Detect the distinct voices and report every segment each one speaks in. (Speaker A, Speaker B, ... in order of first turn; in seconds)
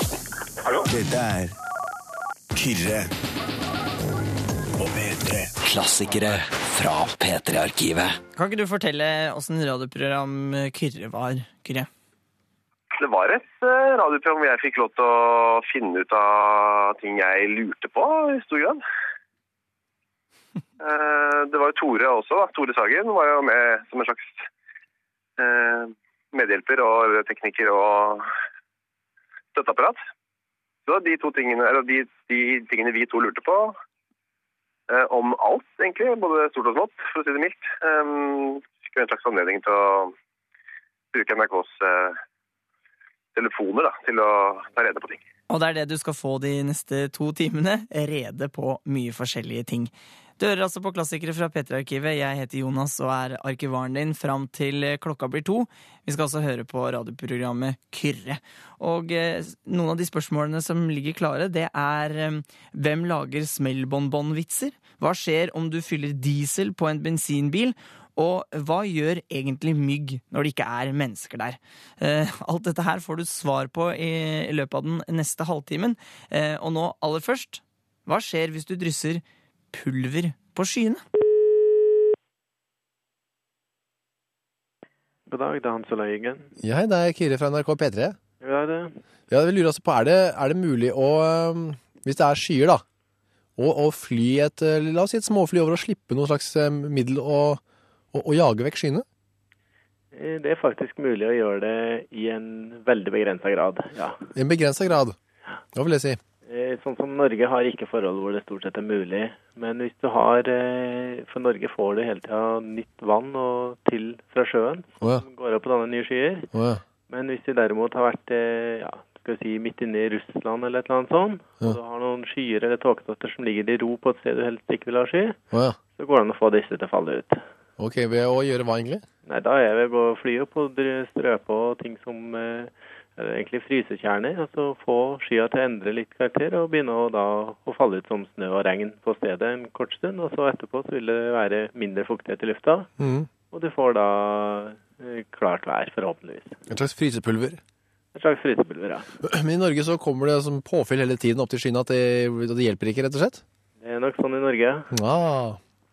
Speaker A: 0.9-1.6, 2.5-3.1, 4.8-5.5
Speaker B: 5.6-8.2
Speaker C: 8.3-11.9, 45.5-81.0
Speaker D: 12.9-18.8, 20.8-24.5, 25.4-28.3, 29.5-30.0, 30.9-33.8, 34.9-40.1, 41.1-42.2, 43.3-45.2
Speaker E: 85.3-86.5, 88.4-89.0, 100.1-104.2, 106.5-116.5, 117.1-125.4, 126.0-127.4, 129.2-142.9, 143.5-146.6, 148.1-149.1, 153.8-154.9
Speaker F: 86.6-88.2, 89.3-92.8, 93.6-97.6, 98.1-99.0, 104.3-105.2, 105.7-106.2, 116.5-116.8, 125.5-125.8, 127.8-129.0, 143.0-143.3, 146.7-147.6, 149.2-153.4, 154.9-155.6